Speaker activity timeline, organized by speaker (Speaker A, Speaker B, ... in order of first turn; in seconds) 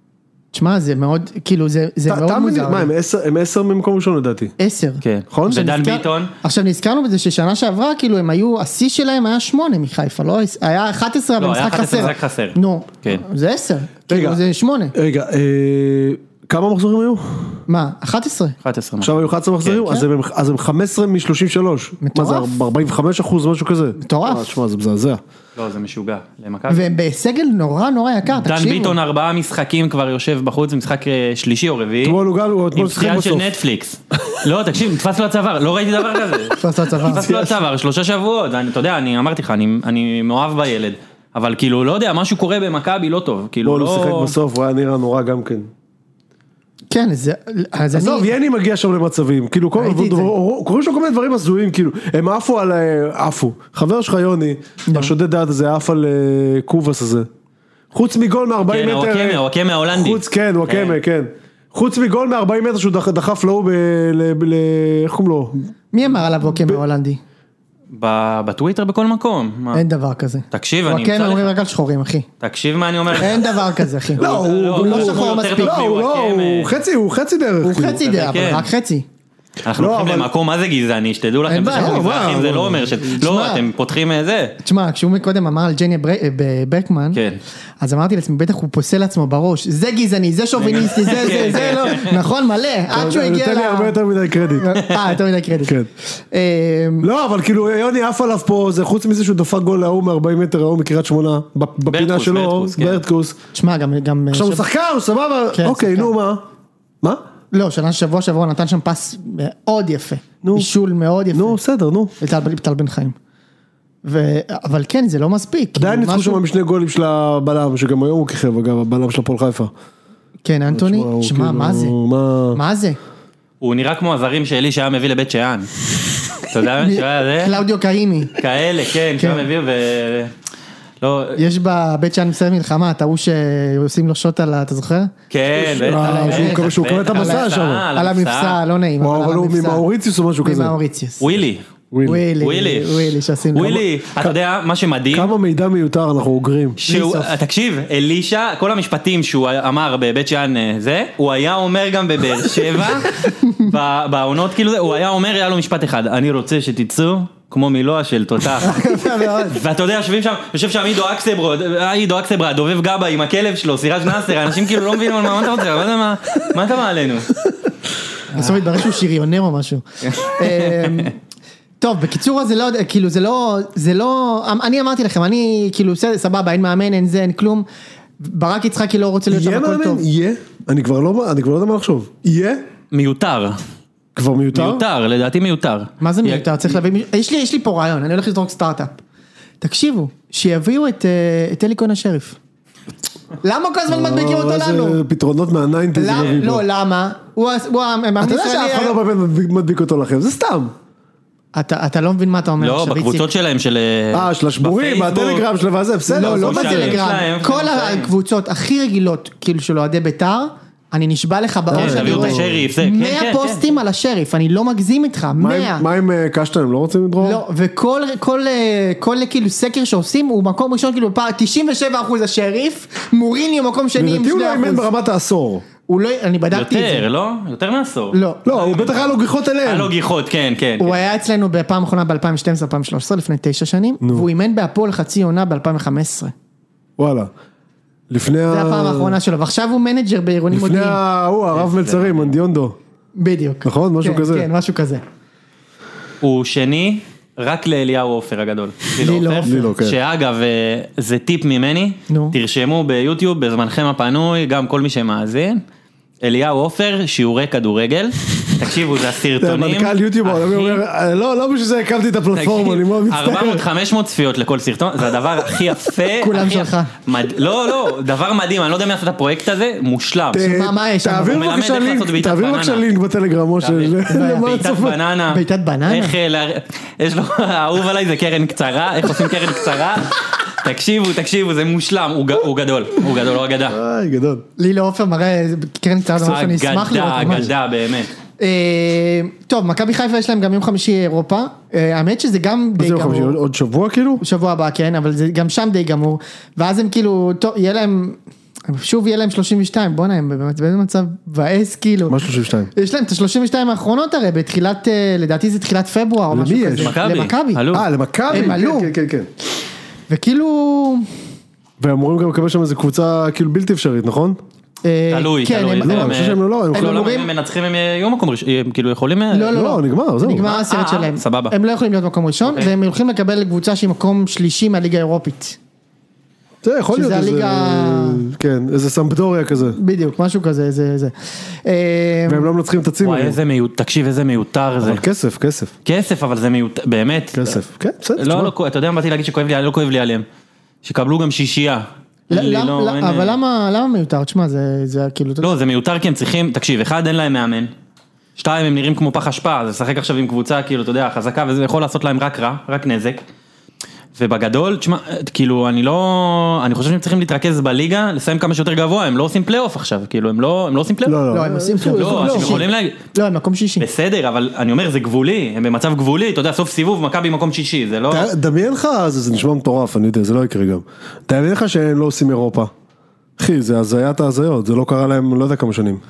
Speaker A: 0.5-2.9, 4.6-14.9, 17.7-18.6, 22.0-22.5, 24.0-24.5, 26.7-29.0, 36.6-37.3, 46.9-48.3, 49.8-50.3, 54.9-55.1, 65.9-67.2, 69.7-72.3, 73.2-75.8, 77.6-79.1, 81.5-82.1, 83.1-83.6, 84.6-87.2, 87.8-94.0, 94.5-97.1, 103.5-104.7, 105.5-106.1, 107.5-111.6, 112.2-113.2, 114.0-116.4, 120.5-122.0, 122.5-123.0, 126.8-128.3, 129.2-129.5, 131.4-135.1, 135.8-139.8, 140.4-141.3, 142.1-143.8, 146.9-147.3, 158.6-159.6, 168.3-171.2, 171.8-177.7, 178.2-180.0, 186.0-189.0, 189.6-192.4, 193.4-195.0, 195.9-199.0, 201.5-203.3, 206.1-215.8, 217.2-224.9, 225.9-227.1, 228.1-228.4, 230.8-236.3, 238.5-241.0, 243.2-245.0, 249.0-249.7, 252.1-252.4, 266.2-266.9, 270.4-271.4, 274.1-276.2, 284.6-287.5, 288.4-293.4, 294.2-302.2, 302.8-307.6, 308.3-308.9, 310.1-311.1, 314.8-316.2, 316.7-317.3, 319.3-325.6, 326.9-328.2, 329.7-331.1, 331.6-332.5, 342.3-345.6, 361.3-363.9
Speaker B: 2.1-4.5, 5.3-5.8, 14.1-14.4, 14.9-17.6, 19.0-25.2, 32.0-33.5, 37.1-37.6, 43.6-45.7, 47.9-57.3, 57.9-65.6, 66.5-66.8, 74.2-78.0, 79.7-80.3, 81.7-83.0, 91.2-91.9, 92.9-94.8, 97.0-103.4, 104.3-106.4, 110.4-110.7, 111.3-112.1, 115.8-119.7, 120.7-122.6, 135.6-137.9, 139.0-140.8, 141.9-142.2, 145.1-146.8, 179.3-182.7, 184.2-184.8, 193.9-196.6, 198.2-200.7, 204.1-207.0, 211.7-212.7, 215.4-217.4, 224.0-225.7, 228.4-229.9, 234.0-234.3, 237.0-237.3, 238.1-239.2, 240.5-242.8, 243.7-244.5, 249.4-250.0, 259.4-263.6, 270.3-275.0, 283.7-284.4, 292.8-294.2, 302.1-302.7, 306.3-306.9, 307.7-309.3, 311.8-314.4, 315.8-317.1, 319.5-320.5, 326.6-329.8, 332.3-333.4, 334.8-335.7, 337.3-338.5, 361.1-362.6, 368.1-372.7, 373.4-376.0
Speaker C: 5.0-6.3, 11.4-13.2, 18.6-19.9, 25.6-26.9, 28.3-32.2, 32.8-44.3, 58.7-61.0, 67.9-69.8, 70.5-71.5, 72.4-73.5, 74.2-76.8, 78.0-78.7, 79.6-84.6, 87.1-87.4, 90.6-92.2, 101.9-103.0, 123.6-125.7, 126.3-127.6, 128.4-130.3, 131.0-131.4, 135.3-138.6, 141.2-141.6, 142.4-145.3, 146.8-158.8, 159.4-167.3, 170.0-171.1, 182.9-183.6, 184.5-186.5, 202.6-205.4, 206.2-208.1, 211.7-213.7, 226.5-231.0, 241.5-242.3, 246.2-255.6, 256.2-260.8, 262.4-270.4, 271.2-272.8, 273.6-283.8, 286.2-288.1, 306.8-307.9, 315.1-319.6, 320.4-321.5, 333.0-335.0, 335.9-337.6, 338.2-340.3, 340.8-343.4, 345.4-347.7, 348.4-353.2, 354.1-361.2, 361.9-363.0, 363.8-368.3